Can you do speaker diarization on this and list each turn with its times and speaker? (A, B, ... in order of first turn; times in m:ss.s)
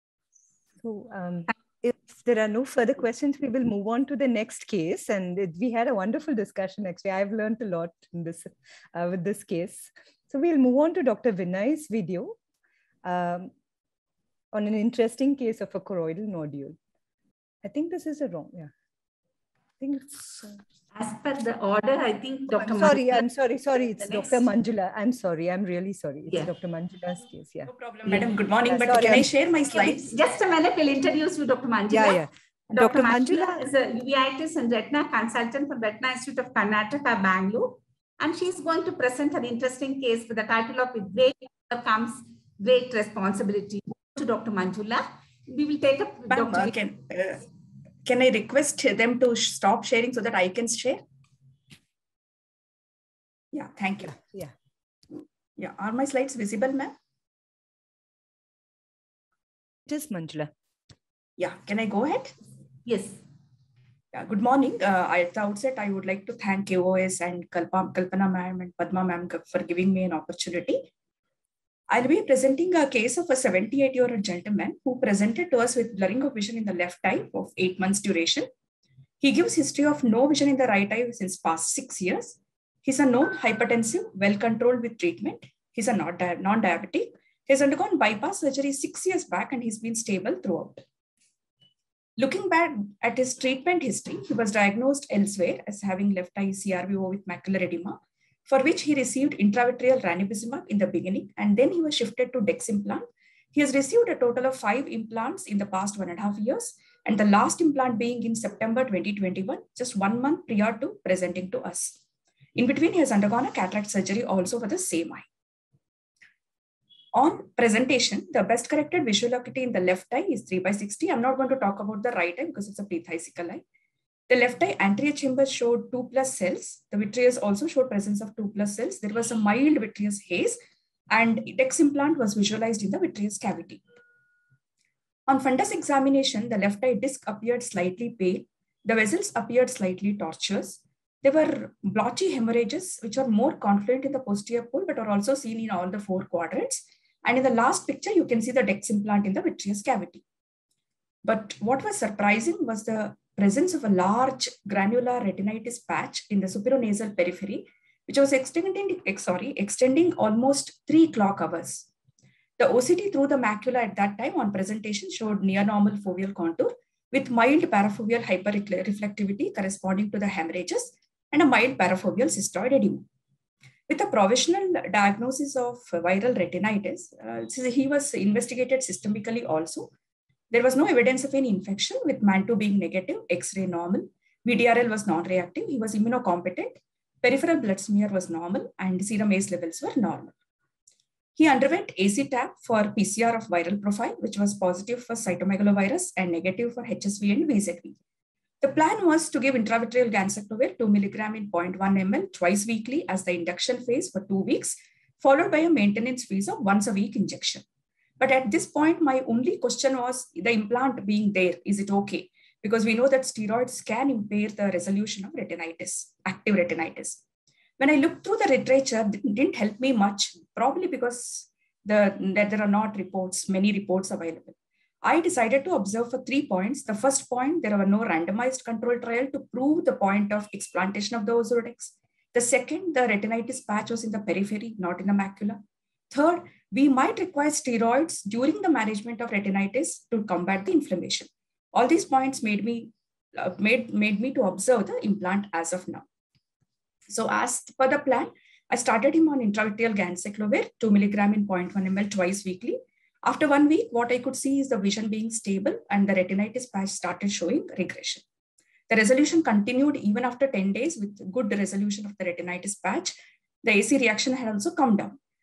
0:00.8-0:12.3 A
0:13.0-0:13.5 A
0:14.5-0:16.8 A
0:17.6-0:18.7 A
0:19.8-0:20.6 A
0:20.9-0:23.2 B
0:22.5-0:27.7 A
0:24.0-0:24.4 B
0:27.6-0:30.1 C
0:28.7-0:29.2 A
0:29.8-0:32.2 B
0:31.9-0:33.6 A
0:32.7-0:46.8 B
0:46.3-0:47.4 C
0:48.0-0:51.0 C
0:53.5-0:54.2 C
0:54.1-0:54.5 A
0:55.6-0:56.9 C
0:59.9-1:00.5 A
1:01.4-1:02.3 C
1:02.8-1:03.2 B
1:04.1-1:10.8 C
1:11.9-1:18.5 C
1:19.2-1:30.8 C
1:32.2-1:52.0 C
1:52.6-1:55.3 C
1:57.1-2:03.6 C
2:04.3-2:10.6 C
2:11.1-2:13.8 C
2:15.3-2:30.2 C
2:31.2-2:41.8 C
2:42.6-2:53.0 C
2:53.9-2:59.9 C
3:00.5-3:10.3 C
3:11.4-3:18.0 C
3:18.6-3:27.6 C
3:28.2-3:37.2 C
3:37.8-4:06.0 C
4:07.1-4:18.2 C
4:18.9-4:25.2 C